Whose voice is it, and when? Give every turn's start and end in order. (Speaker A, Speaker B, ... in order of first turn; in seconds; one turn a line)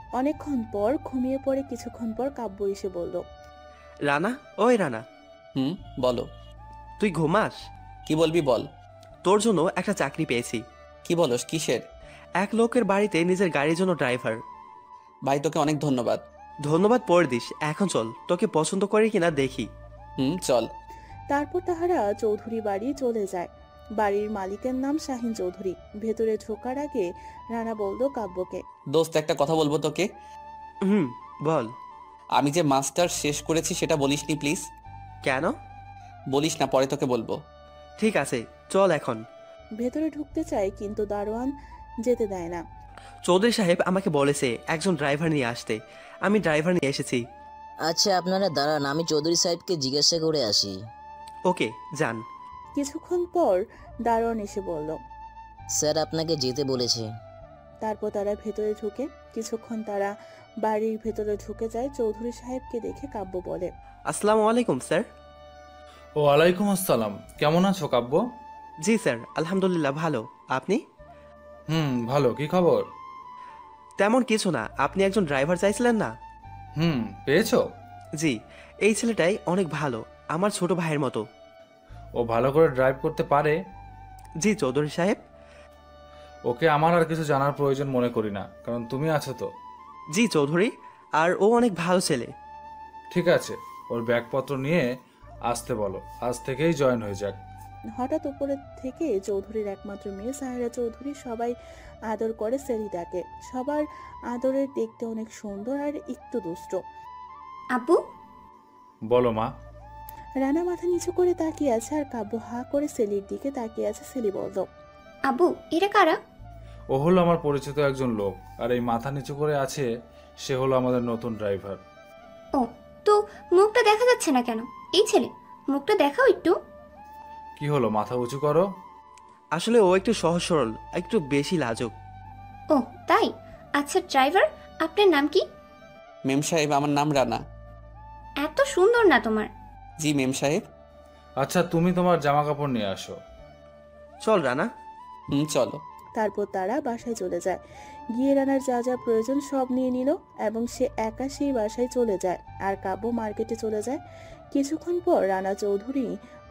Speaker A: 0.2-3.2
Speaker B: 4.1-5.0
Speaker C: 5.6-6.3
Speaker B: 7.0-7.6
Speaker C: 8.1-8.7
Speaker B: 9.2-10.6
Speaker C: 11.1-11.8
Speaker B: 12.4-14.4
Speaker C: 15.3-16.2
Speaker B: 16.6-19.7
Speaker C: 20.2-20.7
Speaker A: 21.3-28.6
Speaker C: 28.9-30.1
Speaker B: 30.8-31.7
Speaker C: 32.4-34.6
Speaker B: 35.2-35.5
Speaker C: 36.3-37.4
Speaker B: 38.0-39.2
Speaker A: 39.8-42.6
Speaker B: 43.2-47.2
Speaker D: 47.9-50.8
Speaker B: 51.5-52.2
Speaker A: 52.8-55.0
Speaker D: 55.8-57.0
Speaker A: 57.8-63.7
Speaker B: 64.1-65.1
Speaker E: 66.2-68.2
Speaker B: 68.8-70.8
Speaker E: 71.7-72.9
Speaker B: 74.0-76.2
Speaker E: 76.8-77.7
Speaker B: 78.2-81.3
Speaker E: 82.2-83.6
Speaker B: 84.4-85.2
Speaker E: 86.5-89.5
Speaker B: 90.1-92.3
Speaker E: 93.1-94.9
Speaker E: 95.5-97.4
Speaker A: 98.0-101.5
Speaker A: 102.1-106.8
Speaker F: 107.7-108.0
Speaker E: 109.1-109.5
Speaker A: 110.4-114.7
Speaker F: 115.3-116.2
Speaker E: 116.9-119.9
Speaker E: 120.4-121.8
Speaker F: 122.5-126.6
Speaker E: 127.6-128.7
Speaker B: 129.5-131.9
Speaker F: 132.7-135.4
Speaker C: 136.3-137.4
Speaker F: 138.4-139.5
Speaker C: 140.0-140.6
Speaker E: 141.4-143.2
Speaker B: 144.2-144.7
Speaker C: 145.3-145.8
Speaker A: 146.2-147.6
Speaker A: 148.2-154.0
Speaker A: 154.5-156.2